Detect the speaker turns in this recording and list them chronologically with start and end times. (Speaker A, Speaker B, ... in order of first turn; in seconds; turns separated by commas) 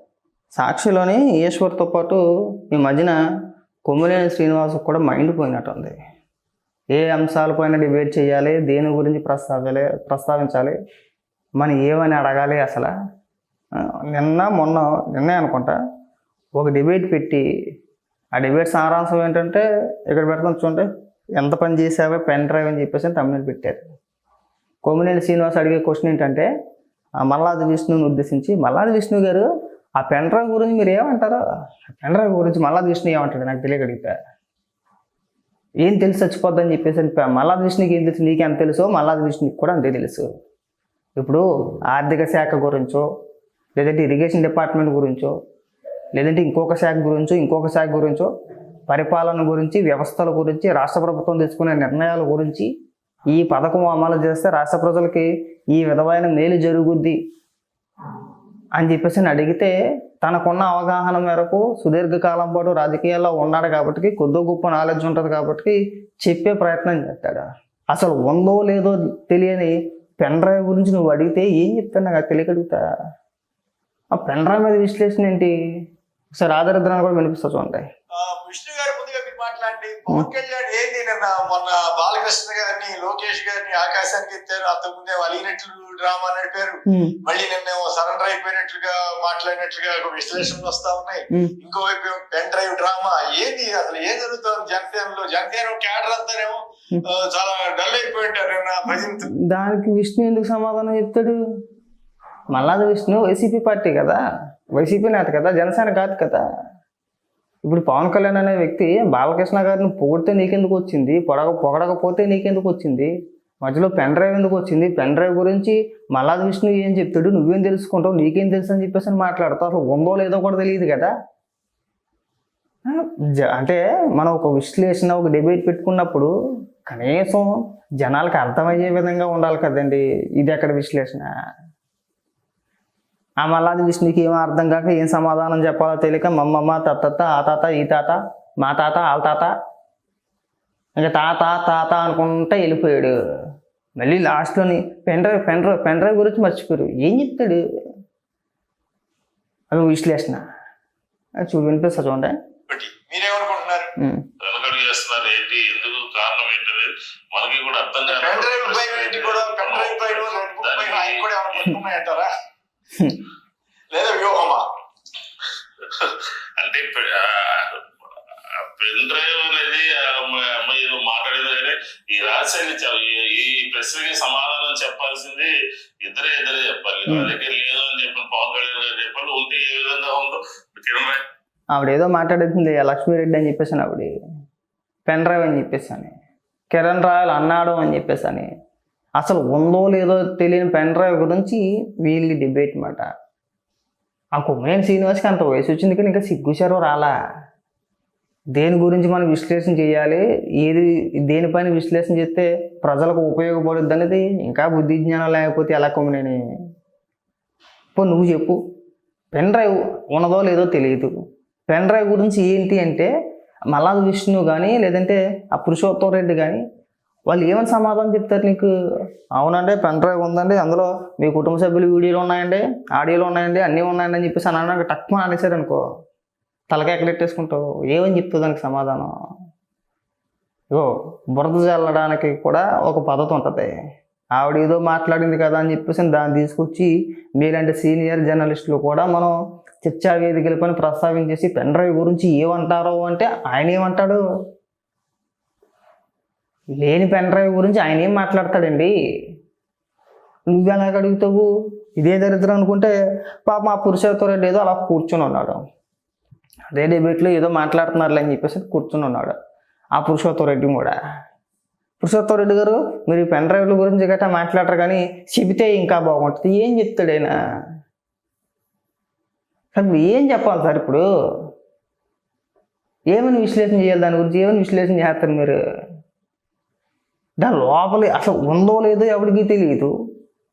Speaker A: 0.6-3.2, Speaker A: 3.9-6.0, Speaker A: 6.9-10.8, Speaker A: 11.6-12.9, Speaker A: 13.8-15.8, Speaker A: 16.6-17.4, Speaker A: 18.4-23.8, Speaker A: 24.9-26.5, Speaker A: 27.2-29.4, Speaker A: 30.0-34.1, Speaker A: 35.8-40.2, Speaker A: 41.2-43.0, Speaker A: 43.8-45.4, Speaker A: 46.2-48.3, Speaker A: 48.9-52.7, Speaker A: 53.3-57.2, Speaker A: 58.8-72.8, Speaker A: 74.1-75.5, Speaker A: 76.3-77.9, Speaker B: 78.2-99.3, Speaker A: 98.9-101.3, Speaker A: 102.5-104.2, Speaker A: 104.8-106.4, Speaker A: 107.7-113.1, Speaker A: 113.6-121.1, Speaker A: 122.9-126.3, Speaker A: 126.9-131.3, Speaker A: 133.4-139.5, Speaker A: 141.0-143.1, Speaker A: 144.0-147.6, Speaker A: 149.7-150.4, Speaker A: 151.4-152.4, Speaker B: 152.7-153.9, Speaker A: 154.0-154.2, Speaker C: 154.4-161.2, Speaker B: 158.0-162.3, Speaker A: 163.0-163.2, Speaker B: 163.9-164.6, Speaker C: 165.8-167.8, Speaker C: 168.8-175.5, Speaker C: 176.1-181.2, Speaker A: 181.7-184.1, Speaker A: 185.1-186.1, Speaker A: 186.7-188.5, Speaker A: 189.2-193.1, Speaker A: 194.3-197.1, Speaker A: 198.6-206.4, Speaker A: 207.9-208.6, Speaker A: 209.3-211.1, Speaker A: 211.7-213.1, Speaker A: 213.7-216.6, Speaker A: 217.3-218.7, Speaker A: 219.4-225.8, Speaker A: 226.7-229.1, Speaker A: 230.7-233.7, Speaker A: 234.4-244.2, Speaker A: 246.8-248.9, Speaker A: 250.5-251.5, Speaker A: 252.0-252.9, Speaker A: 253.4-255.6, Speaker A: 256.7-259.3, Speaker A: 260.0-261.0, Speaker A: 262.0-267.3, Speaker A: 269.8-271.0, Speaker A: 273.1-275.6, Speaker A: 277.4-279.9